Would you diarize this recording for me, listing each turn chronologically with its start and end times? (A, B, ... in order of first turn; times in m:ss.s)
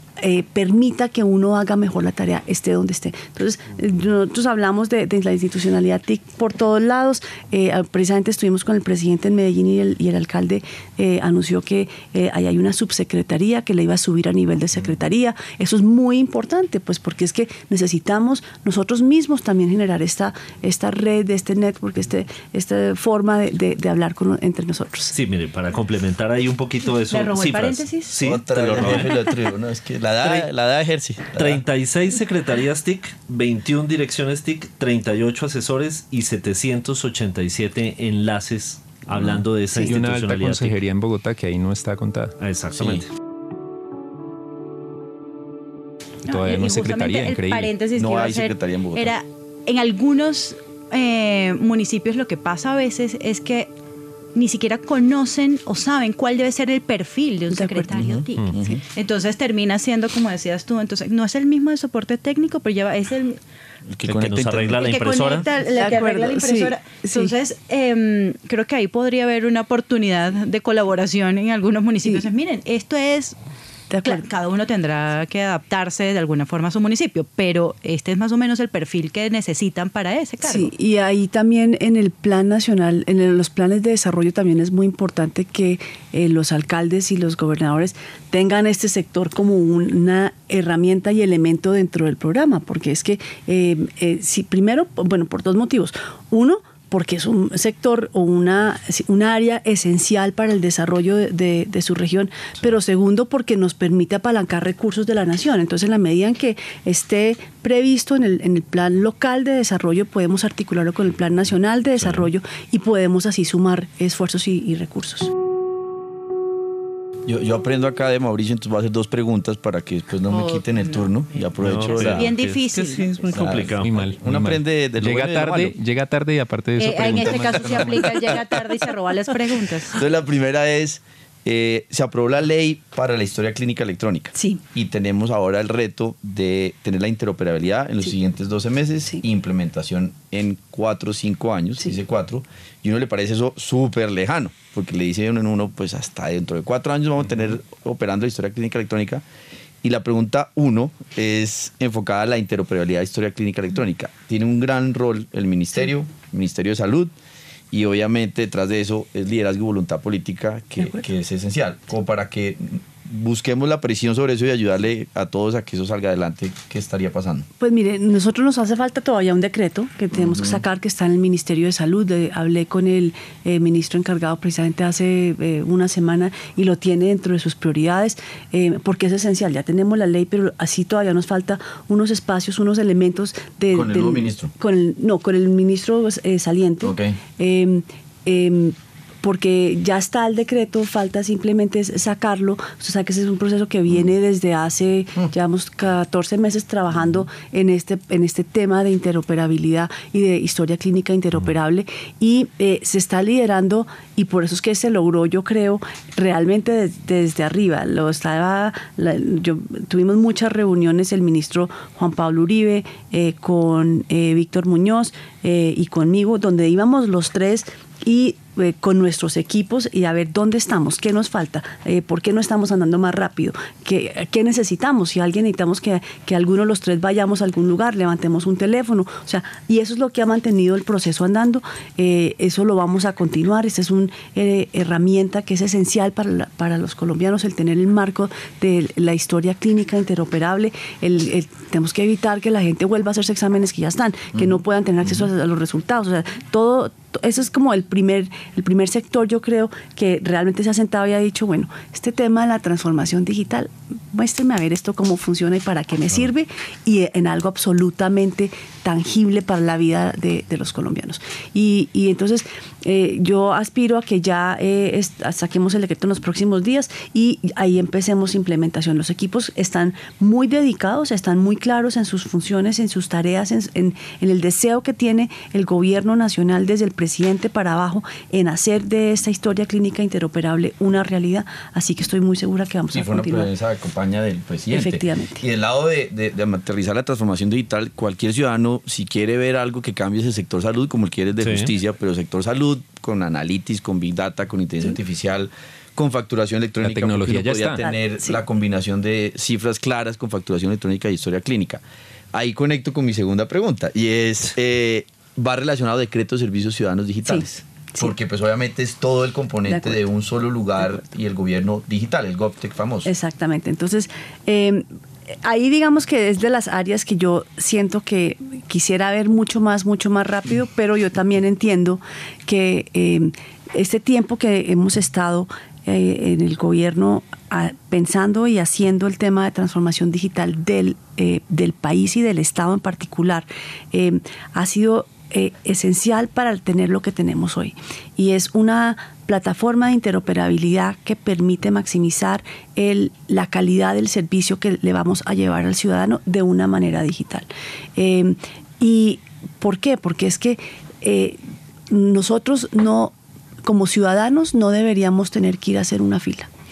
0:00.2-0:25.1 A
0:25.1-0:29.2 B
0:27.1-0:28.1 C
0:28.2-0:31.6 D
0:30.2-0:30.5 B
0:31.3-0:40.7 B
0:39.1-0:39.4 D
0:39.9-0:42.4 E
0:42.4-0:43.1 B
0:42.7-0:43.0 D
0:46.2-0:53.7 C
0:46.3-0:47.7 E
0:48.0-0:49.1 D
0:54.3-1:03.4 C
0:57.5-0:58.8 A
0:58.0-0:58.8 D
1:03.9-1:05.0 D
1:04.0-1:05.5 B
1:04.8-1:13.4 C
1:05.6-1:07.3 A
1:13.9-1:14.2 A
1:14.0-1:20.7 C
1:20.4-1:55.3 A
1:52.0-1:52.3 B
1:57.2-2:02.3 D
2:00.3-2:01.1 C
2:01.6-2:04.1 B
2:01.8-2:03.3 C
2:03.3-2:05.8 D
2:03.8-2:08.1 E
2:06.8-2:10.0 C
2:07.0-2:08.1 D
2:09.9-2:29.2 D
2:14.4-2:14.6 A
2:29.8-2:37.1 D
2:37.7-2:47.5 D
2:47.6-4:43.5 A
2:50.1-2:50.6 D
3:03.7-3:04.5 D
3:06.8-3:07.2 D
4:42.9-5:01.8 D
4:44.7-4:45.4 A
4:51.4-4:51.7 B
4:56.8-4:57.8 E
4:57.8-4:58.4 A
5:02.3-5:13.1 D
5:09.7-5:10.0 A
5:13.0-5:51.4 A
5:51.9-5:56.5 A